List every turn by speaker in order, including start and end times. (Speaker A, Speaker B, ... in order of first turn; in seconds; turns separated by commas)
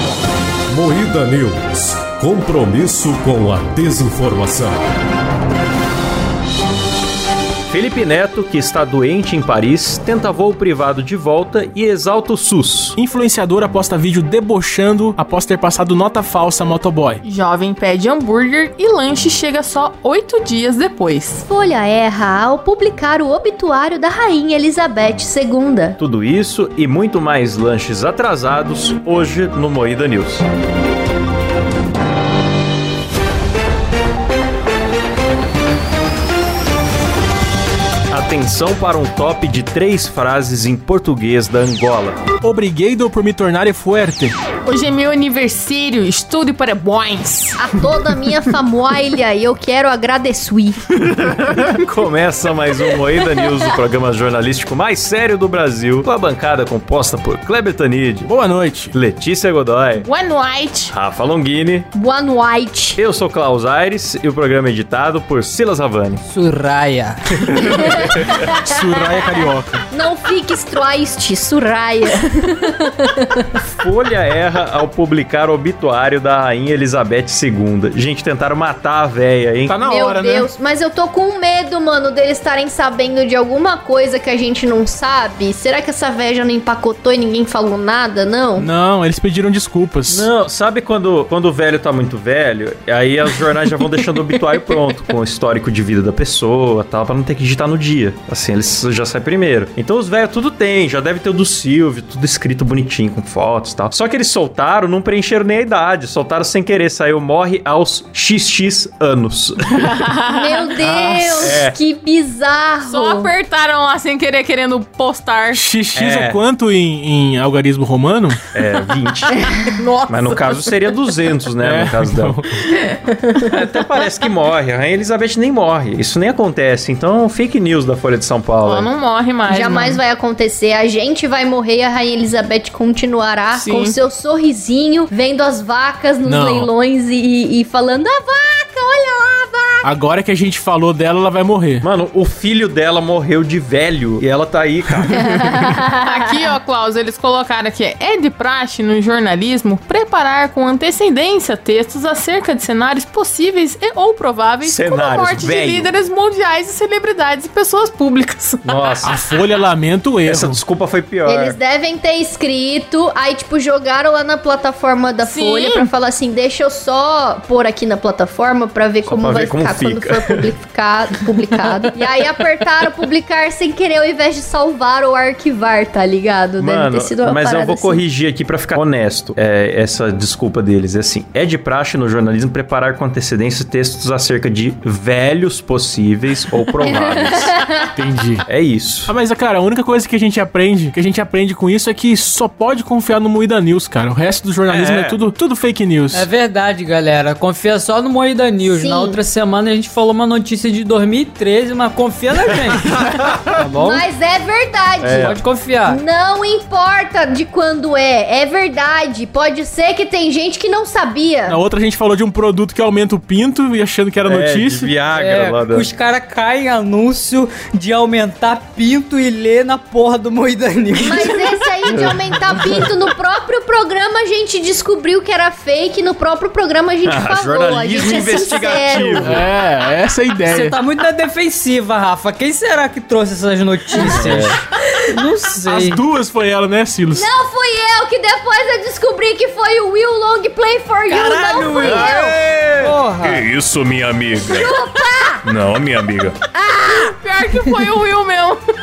Speaker A: 0.7-4.8, Speaker B: 7.7-13.0, Speaker C: 13.0-17.2, Speaker D: 17.2-21.4, Speaker E: 21.5-26.0, Speaker B: 26.0-30.4, Speaker B: 38.1-42.2, Speaker C: 42.4-44.3, Speaker D: 44.7-47.6, Speaker E: 47.6-50.8, Speaker B: 50.9-58.3, Speaker C: 58.3-58.9, Speaker B: 58.9-60.1, Speaker D: 60.0-60.9, Speaker B: 60.9-61.9, Speaker E: 61.9-63.0, Speaker B: 63.0-66.2, Speaker F: 66.3-67.2, Speaker B: 67.5-68.3, Speaker E: 67.9-68.6, Speaker C: 68.6-69.8, Speaker E: 69.9-73.4, Speaker B: 73.6-79.8, Speaker C: 79.7-80.5, Speaker E: 79.8-88.7, Speaker C: 88.6-90.3, Speaker B: 90.1-110.0, Speaker D: 109.8-110.7, Speaker E: 110.3-113.3, Speaker B: 111.4-111.8, Speaker D: 112.8-115.6, Speaker C: 115.5-118.4, Speaker B: 115.9-116.4, Speaker B: 118.5-119.5, Speaker D: 119.4-121.0, Speaker B: 120.1-122.4, Speaker C: 121.6-122.6, Speaker B: 123.4-128.9, Speaker D: 128.6-130.0, Speaker E: 129.5-139.9, Speaker D: 133.5-134.0, Speaker C: 136.2-136.7, Speaker C: 139.8-141.8, Speaker B: 141.8-145.4, Speaker E: 145.2-146.0, Speaker D: 146.0-159.1, Speaker B: 154.6-155.9, Speaker B: 158.6-159.2, Speaker C: 159.0-160.6, Speaker B: 160.2-161.6, Speaker E: 161.2-178.0, Speaker D: 165.2-165.9, Speaker B: 169.1-170.5, Speaker B: 176.6-187.6, Speaker E: 186.8-187.9, Speaker C: 188.0-188.4, Speaker B: 188.5-189.1, Speaker C: 189.1-196.3, Speaker B: 194.7-195.2, Speaker F: 196.1-204.1, Speaker E: 198.6-199.2, Speaker E: 203.8-211.6, Speaker F: 205.0-206.0, Speaker B: 205.0-205.4, Speaker C: 211.5-214.9, Speaker B: 214.2-215.9, Speaker F: 215.2-221.6, Speaker E: 221.0-229.4, Speaker B: 221.9-222.2, Speaker B: 227.1-229.4, Speaker C: 229.2-230.8, Speaker F: 230.4-236.0, Speaker E: 233.9-234.3, Speaker B: 234.1-234.6, Speaker C: 235.6-237.3, Speaker E: 237.1-242.4, Speaker B: 241.1-244.7, Speaker F: 241.6-242.0, Speaker F: 242.8-243.2, Speaker E: 244.4-245.6, Speaker B: 245.4-246.4, Speaker E: 246.5-247.2, Speaker D: 246.8-248.6